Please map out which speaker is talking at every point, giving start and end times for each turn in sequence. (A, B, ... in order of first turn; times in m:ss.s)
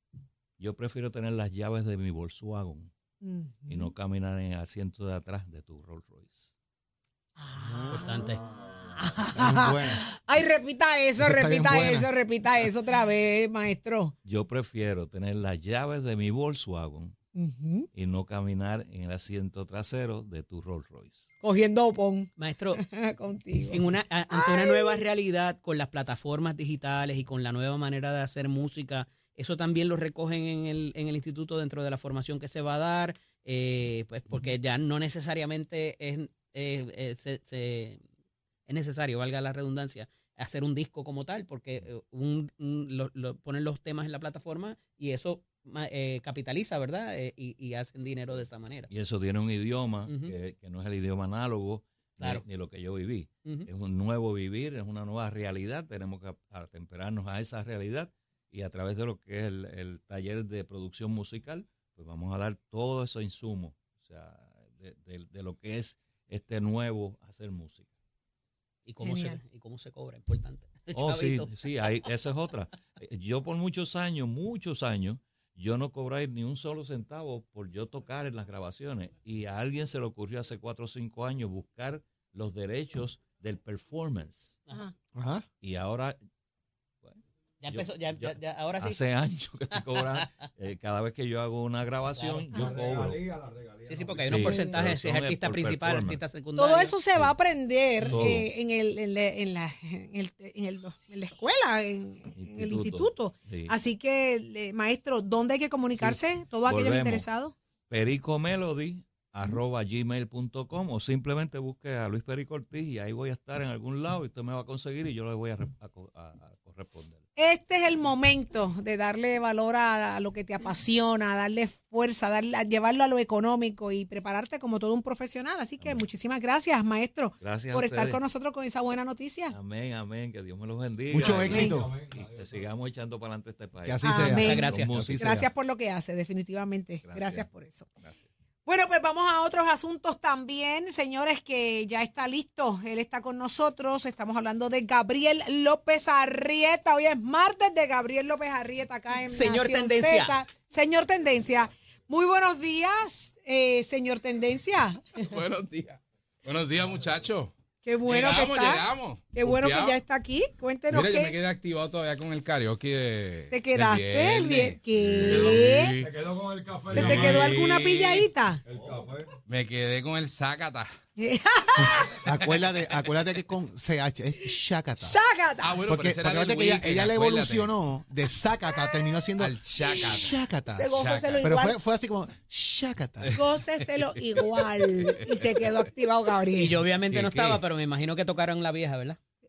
0:00.6-0:02.9 A
0:03.2-0:03.9 B
0:03.7-0:06.5 A
0:07.4-0:08.2 B
0:07.6-0:08.4 C
0:07.9-0:08.4 D
0:09.0-0:14.1 B
0:09.3-0:10.0 C
0:11.2-0:12.1 C
0:14.2-0:17.2 A
0:17.3-0:17.9 B
0:17.9-0:21.3 A
0:21.4-0:25.0 B
0:22.4-0:22.8 D
0:23.7-0:38.0 D
0:38.7-0:48.9 D
0:48.9-1:07.9 A
0:50.1-0:50.3 D
1:08.8-1:11.5 D
1:09.0-1:09.4 B
1:10.9-1:24.6 A
1:25.1-1:25.4 C
1:25.6-1:26.2 A
1:27.0-1:33.5 A
1:27.6-1:29.0 D
1:29.8-1:30.3 D
1:32.1-1:32.7 D
1:33.8-1:37.0 D
1:34.1-1:36.2 A
1:34.4-1:34.8 B
1:36.6-1:47.5 B
1:38.0-1:38.5 A
1:42.4-1:43.7 A
1:46.0-1:47.2 A
1:47.9-1:57.2 A
1:57.4-2:09.5 B
2:07.4-2:08.2 A
2:09.5-2:15.5 A
2:11.1-2:12.0 C
2:13.8-2:15.4 C
2:14.0-2:17.9 B
2:14.3-2:14.9 D
2:17.0-2:17.5 A
2:18.6-2:35.0 B
2:29.2-2:30.4 D
2:35.2-2:37.5 E
2:37.8-2:41.4 B
2:38.1-2:40.0 E
2:40.9-2:48.3 E
2:43.5-2:46.0 B
2:46.9-2:48.6 B
2:49.4-2:50.9 E
2:51.2-2:52.2 B
2:52.2-2:55.2 C
2:55.0-2:55.8 B
2:55.6-2:57.7 E
2:55.9-3:03.4 C
2:58.7-2:59.1 B
2:59.4-3:00.4 E
2:59.9-3:00.2 B
3:00.8-3:01.8 B
3:00.9-3:01.5 E
3:03.4-3:06.8 B
3:05.0-3:05.4 E
3:06.5-3:09.2 D
3:07.1-3:07.6 E